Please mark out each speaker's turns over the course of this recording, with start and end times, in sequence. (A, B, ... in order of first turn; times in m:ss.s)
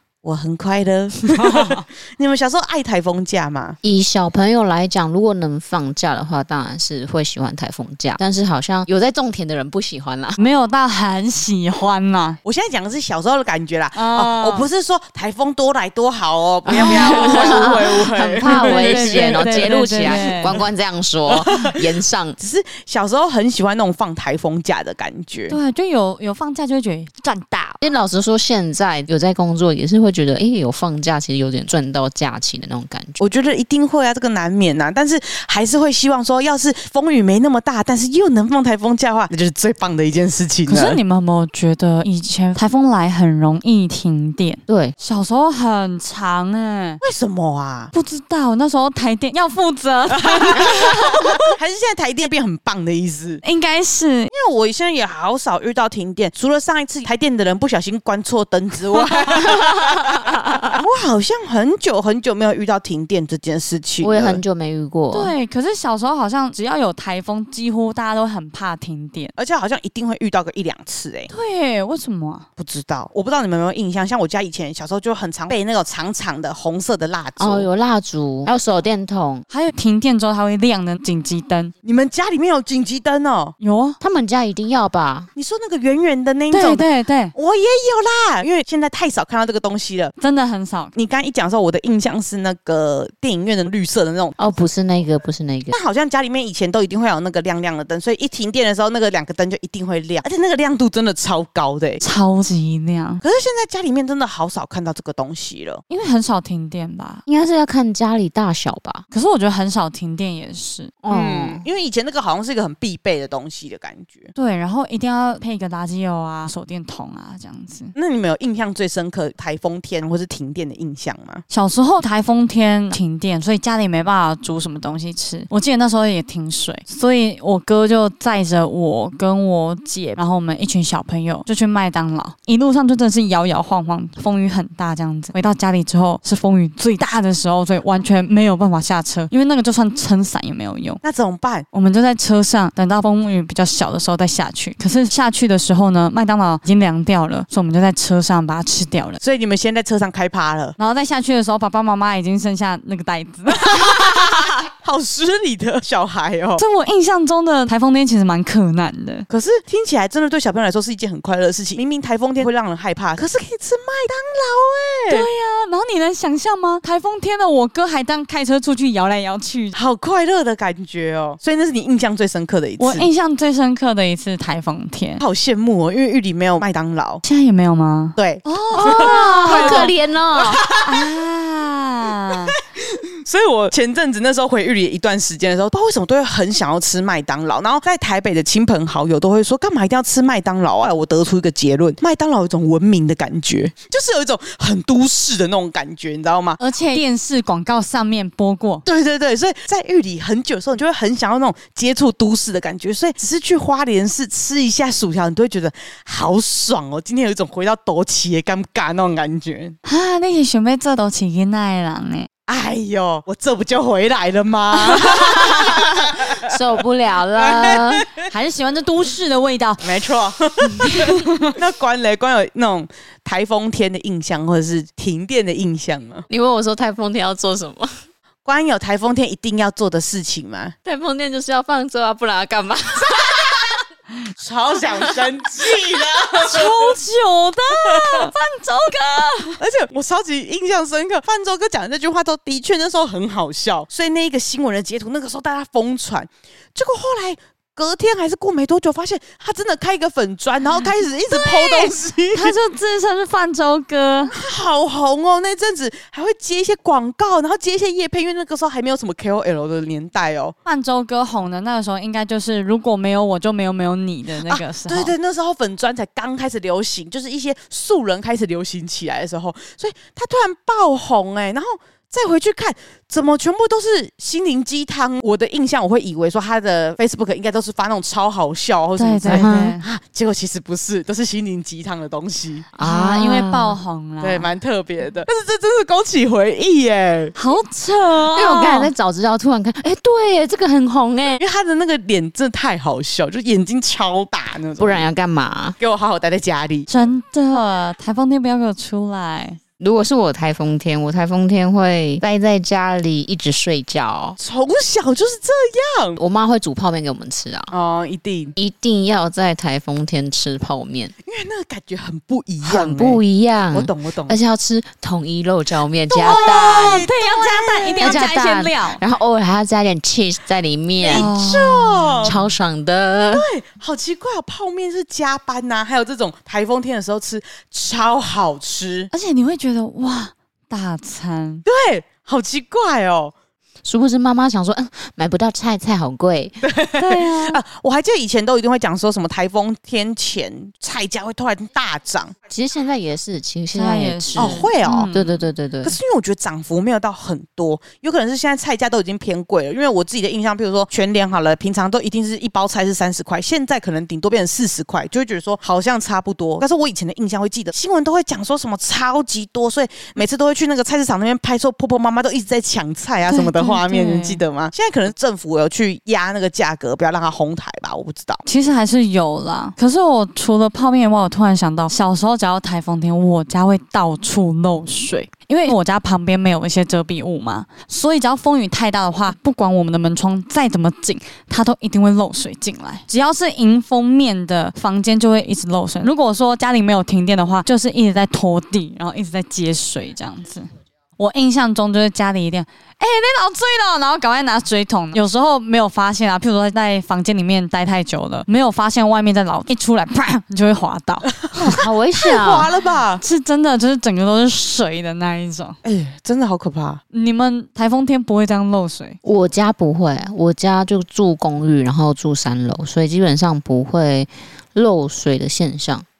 0:00.2-0:03.8 A
0:01.2-0:01.8 B
0:03.8-0:10.4 C
0:10.4-0:12.4 B
0:12.4-0:20.6 A
0:14.0-0:14.7 B
0:16.6-0:22.4 C
0:16.7-0:17.9 B
0:18.4-0:20.6 B
0:21.3-0:25.6 A
0:25.5-0:27.8 B
0:27.8-0:33.2 C
0:33.2-0:41.0 A
0:40.7-0:47.0 B
0:44.7-0:44.9 C
0:47.0-0:47.9 A
0:47.9-0:51.5 B
0:50.1-0:53.4 A
0:53.4-0:54.3 B
0:54.3-1:04.4 A
0:59.2-0:59.6 B
1:00.2-1:00.7 C
1:04.0-1:05.3 C
1:05.1-1:09.3 B
1:09.4-1:11.3 A
1:11.3-1:12.5 B
1:12.6-1:17.7 A
1:17.4-1:19.4 C
1:19.5-1:21.7 B
1:21.8-1:23.5 A
1:23.6-1:24.0 B
1:24.0-1:25.3 C
1:25.4-1:30.1 A
1:26.5-1:27.3 B
1:30.2-1:30.9 B
1:30.9-1:34.4 A
1:34.4-1:35.8 C
1:35.7-1:42.0 A
1:42.0-1:43.2 B
1:43.2-1:45.8 A
1:45.9-1:47.2 B
1:47.2-1:49.0 C
1:49.1-1:50.9 B
1:51.0-1:51.6 C
1:51.1-1:54.3 A
1:54.4-1:57.9 B
1:58.0-2:01.4 A
2:01.5-2:21.0 B
2:21.0-2:21.6 A
2:21.7-2:29.2 B
2:29.2-2:30.8 A
2:30.8-2:34.6 B
2:33.6-2:36.6 A
2:36.6-2:39.2 B
2:39.3-2:45.3 A
2:45.1-2:49.7 B
2:49.7-2:53.1 A
2:52.8-2:55.2 B
2:55.2-2:57.2 A
2:57.2-2:59.9 B
2:58.2-3:01.1 A
2:58.7-3:00.6 C
3:00.8-3:02.6 B
3:02.6-3:16.6 A
3:16.6-3:18.8 B
3:18.8-3:29.8 A
3:29.8-3:32.3 B
3:32.5-3:36.6 A
3:36.4-3:38.1 C
3:37.4-3:38.2 A
3:38.3-3:39.9 B
3:39.8-3:46.2 A
3:40.8-3:41.5 B
3:46.3-3:48.0 C
3:48.4-3:50.8 A
3:50.8-3:53.7 C
3:53.0-3:53.8 A
3:54.4-3:57.0 A
3:56.3-3:59.6 B
3:57.8-3:58.3 A
3:59.6-4:12.5 A
4:11.3-4:14.3 B
4:14.3-4:20.6 A
4:20.6-4:25.1 B
4:24.4-4:42.7 A
4:39.0-4:39.8 B
4:39.2-4:39.8 C
4:42.7-4:43.8 C
4:42.8-4:44.5 B
4:44.2-4:47.3 A
4:47.4-4:48.9 B
4:48.3-4:51.4 C
4:51.4-4:55.1 A
4:54.8-4:55.8 C
4:55.8-4:56.9 A
4:56.9-4:59.6 B
4:59.8-5:04.4 C
5:04.4-5:06.2 A
5:06.2-5:07.7 C
5:07.7-5:08.5 A
5:08.6-5:11.1 C
5:11.2-5:13.2 A
5:12.6-5:17.0 C
5:13.7-5:14.4 A
5:16.1-5:18.2 A
5:16.2-5:19.0 B
5:18.0-5:21.3 C
5:21.0-5:22.4 A
5:21.1-5:22.4 B
5:22.2-5:23.5 C
5:23.3-5:29.1 A
5:29.1-5:31.6 B
5:31.6-5:33.3 A
5:33.8-5:36.6 C
5:36.6-5:42.3 A
5:37.0-5:37.6 B
5:42.5-5:46.0 C
5:43.7-5:45.3 B
5:44.4-5:45.1 A
5:45.8-6:08.4 A
6:03.3-6:04.4 B
6:08.4-6:41.8 B
6:41.4-6:43.2 A
6:41.6-6:42.7 C
6:43.2-6:45.8 B
6:45.8-6:47.0 A
6:47.1-6:49.2 B
6:49.2-6:56.0 C